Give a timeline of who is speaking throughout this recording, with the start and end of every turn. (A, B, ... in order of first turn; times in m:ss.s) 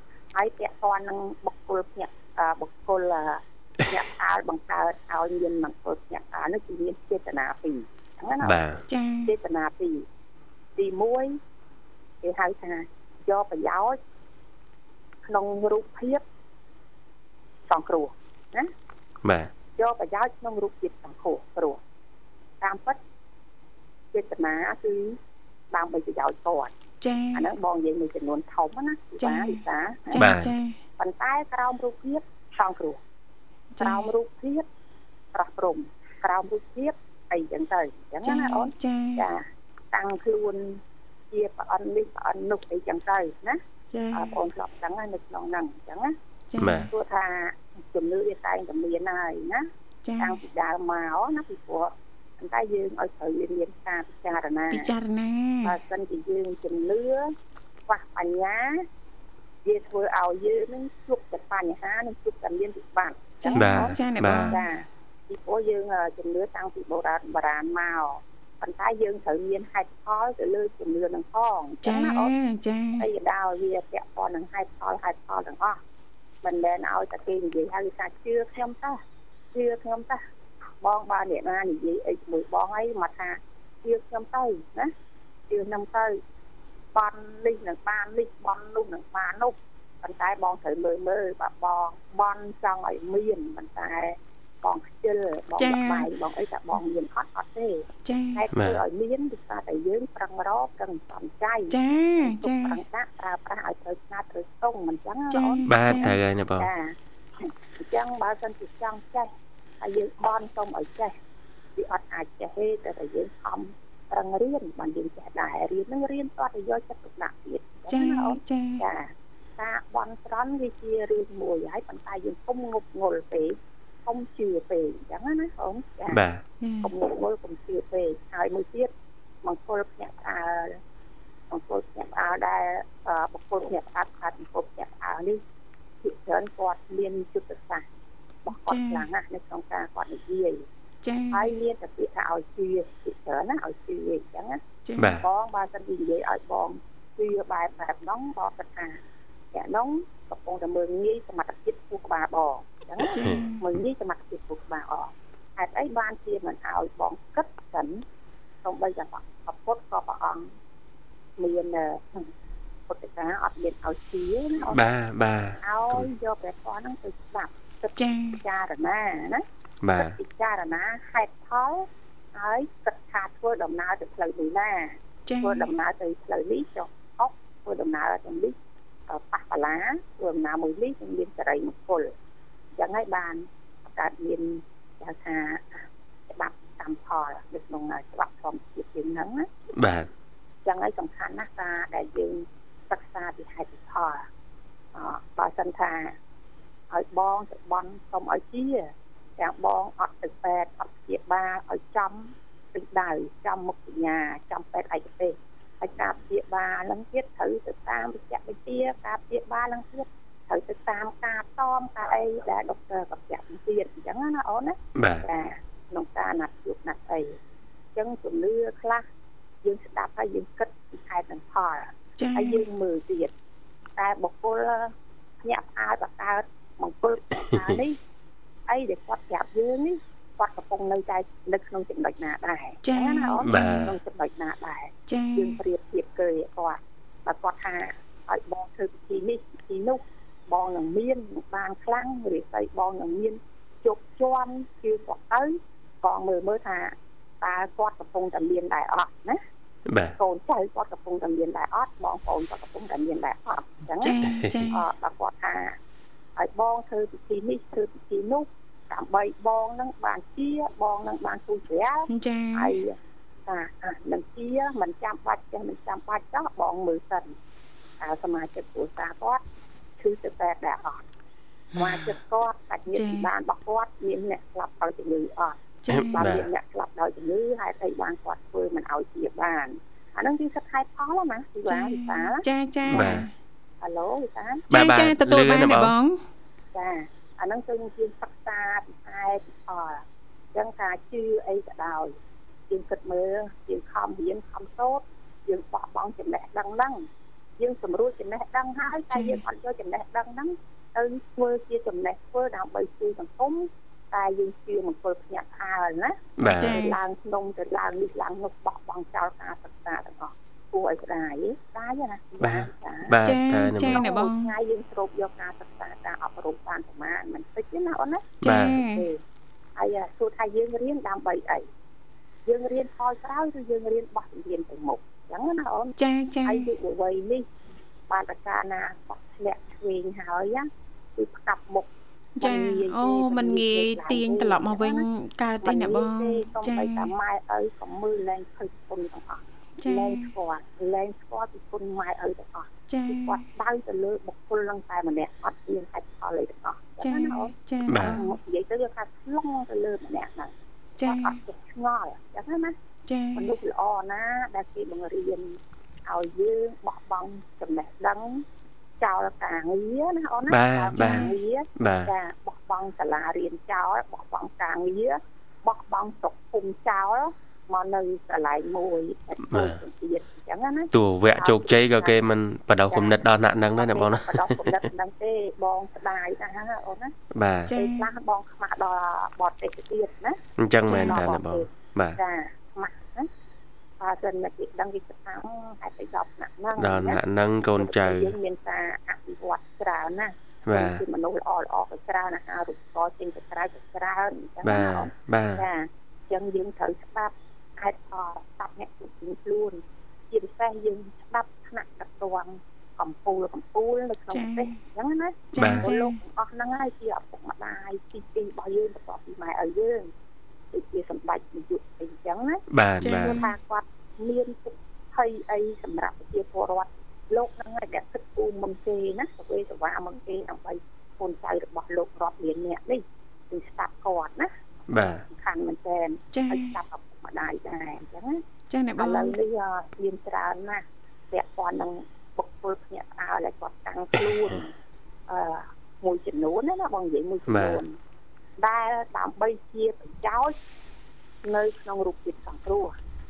0:00.3-0:08.6 A
0:08.4-0:08.8 B
0:08.9-0:09.3 C
0:09.2-0:10.0 A
0:10.8-0:11.4 A
0:12.2-0:14.0 A
0:15.2-0:16.2 A
0:17.7-0:18.7 A
0:19.2-0:19.5 B
0:19.8-0:21.8 A
0:22.6-0:23.0 A
0:24.1-0:25.2 A
0:25.7-0:26.7 A
0:27.0-0:27.4 C
0:27.3-0:30.3 A
0:29.2-0:30.8 C
0:30.2-0:30.5 B
0:31.0-0:33.0 A
0:33.7-0:34.1 C
0:33.8-0:34.6 A
0:35.3-0:40.8 A
0:38.2-0:39.2 C
0:41.3-0:43.6 A
0:43.9-0:44.3 C
0:44.1-0:46.1 A
0:46.5-0:46.9 C
0:46.6-0:46.9 B
0:46.8-0:49.7 A
0:50.0-0:50.4 C
0:50.2-0:54.9 A
0:54.7-0:55.7 C
0:55.6-0:57.3 A
0:57.9-0:58.8 A
0:59.6-1:12.3 A
1:03.4-1:04.6 C
1:03.5-1:04.6 B
1:11.8-1:13.0 C
1:13.0-1:15.8 A
1:16.4-1:19.0 A
1:19.5-1:20.2 A
1:20.8-1:24.9 A
1:25.5-1:26.2 A
1:26.9-1:51.2 A
1:35.6-1:36.1 C
1:38.0-1:38.4 C
1:38.5-1:38.8 B
1:41.7-1:42.8 C
1:45.3-1:46.2 C
1:45.7-1:46.7 B
1:51.8-2:06.2 A
1:57.9-1:58.8 C
2:06.1-2:06.4 B
2:06.6-2:06.9 C
2:06.8-2:08.9 A
2:09.4-2:10.8 A
2:11.5-2:15.4 A
2:16.0-2:17.8 A
2:18.4-2:20.6 A
2:18.6-2:19.0 C
2:21.0-2:21.5 C
2:21.3-2:29.0 A
2:24.8-2:25.2 C
2:25.0-2:25.2 B
2:29.5-2:38.0 A
2:33.1-2:33.6 C
2:33.1-2:33.4 B
2:38.6-2:40.5 A
2:41.4-2:42.3 A
2:42.9-2:44.8 A
2:44.7-2:46.1 B
2:45.6-2:58.6 A
2:48.0-2:48.4 C
2:49.8-2:50.2 B
2:55.3-2:55.7 C
2:59.1-3:02.1 A
3:02.8-3:09.5 A
3:09.7-3:10.1 B
3:10.6-3:14.2 A
3:14.9-3:16.2 A
3:16.9-3:37.4 A
3:34.9-3:35.2 B
3:38.0-3:39.0 A
3:39.6-3:43.3 A
3:42.2-3:42.6 C
3:44.0-3:48.0 A
3:48.7-4:09.4 A
3:52.8-3:53.7 C
3:53.4-3:54.0 B
3:55.1-3:55.6 C
4:09.9-4:10.2 B
4:10.2-4:15.8 A
4:14.0-4:14.8 C
4:14.2-4:14.6 B
4:16.4-4:27.3 A
4:22.1-4:22.7 C
4:28.0-4:29.4 A
4:30.0-4:31.0 A
4:31.7-4:43.1 A
4:32.9-4:33.3 C
4:35.8-4:36.2 C
4:35.9-4:36.5 B
4:41.7-4:43.3 C
4:42.9-4:43.3 B
4:43.8-4:44.6 A
4:44.7-4:45.9 B
4:44.7-4:46.2 C
4:46.7-4:52.2 A
4:52.7-4:57.1 A
4:57.6-5:13.2 A
4:59.1-4:59.4 C
5:06.4-5:06.8 B
5:06.4-5:07.0 C
5:12.4-5:14.0 B
5:13.2-5:14.5 C
5:13.8-5:19.2 A
5:18.4-5:18.8 B
5:18.4-5:19.0 C
5:19.8-5:21.7 A
5:22.4-5:27.4 A
5:26.0-5:26.7 C
5:28.1-5:35.0 A
5:32.4-5:37.1 C
5:35.6-5:52.7 A
5:39.8-5:40.2 C
5:42.9-5:43.4 C
5:47.0-5:48.3 C
5:47.9-5:48.2 B
5:51.0-5:51.3 C
5:53.1-5:53.4 C
5:53.3-5:58.4 A
5:59.0-6:12.2 A
6:00.5-6:02.1 B
6:01.0-6:01.3 C
6:09.5-6:09.8 B
6:10.9-6:14.8 B
6:12.9-6:13.2 A
6:13.7-6:17.1 A
6:17.3-6:17.7 B
6:17.7-6:18.1 C
6:17.7-6:23.3 A
6:20.6-6:22.2 B
6:20.9-6:21.2 C
6:24.0-6:27.2 A
6:26.8-6:28.4 B
6:27.8-6:50.1 A
6:30.6-6:31.0 B
6:34.6-6:35.6 B
6:44.3-6:44.7 C
6:45.5-6:46.1 C
6:45.6-6:45.9 B
6:50.7-7:04.5 A
6:52.7-6:53.4 B
6:53.0-6:53.5 C
7:04.9-7:05.2 B
7:05.2-7:08.4 A
7:06.3-7:06.7 C
7:08.7-7:09.3 C
7:09.0-7:14.7 A
7:15.3-7:18.0 A
7:17.5-7:17.8 B
7:18.6-7:20.5 A
7:21.4-7:22.9 A